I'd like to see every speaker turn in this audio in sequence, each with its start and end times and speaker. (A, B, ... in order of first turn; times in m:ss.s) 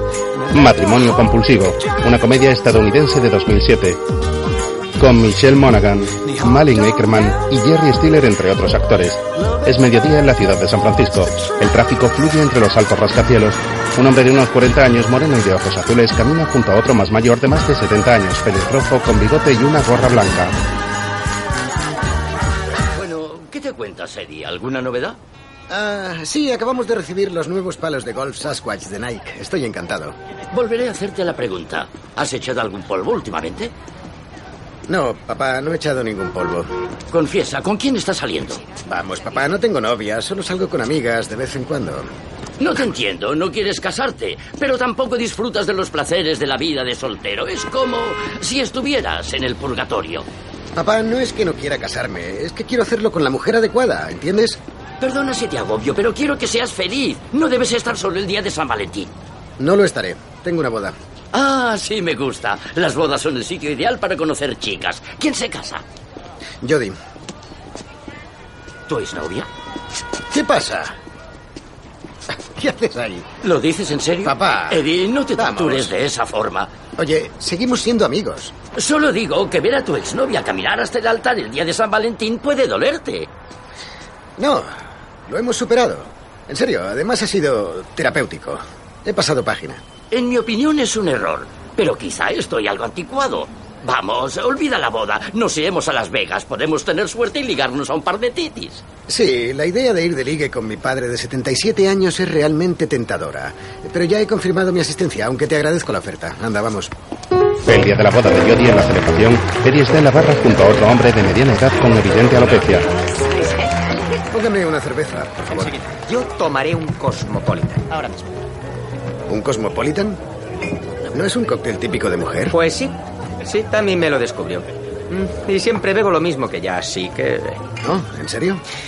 0:00.5-0:04.0 A
0:05.0-0:20.5 A
0:22.9-0:25.2 B
0:25.7-0:30.2 C
0:30.5-0:33.7 B
0:34.9-0:36.7 C
0:37.1-0:38.6 B
0:38.8-0:42.1 C
0:42.6-0:50.3 B
0:50.7-0:54.6 C
0:55.0-0:59.1 B
0:59.6-1:01.0 C
1:01.3-1:05.8 B
1:06.6-1:07.0 C
1:08.9-1:09.5 B
1:10.3-1:11.0 C
1:12.3-1:13.3 C
1:13.4-1:16.7 B
1:14.2-1:15.9 C
1:17.0-1:18.5 C
1:18.8-1:23.3 B
1:24.4-1:29.8 C
1:30.1-1:38.8 B
1:39.1-1:46.9 C
1:47.7-1:52.9 A
1:54.3-1:55.8 C
1:56.1-1:57.9 D
1:59.3-2:00.2 C
2:01.1-2:02.5 C
2:02.5-2:07.6 D
2:07.8-2:08.6 C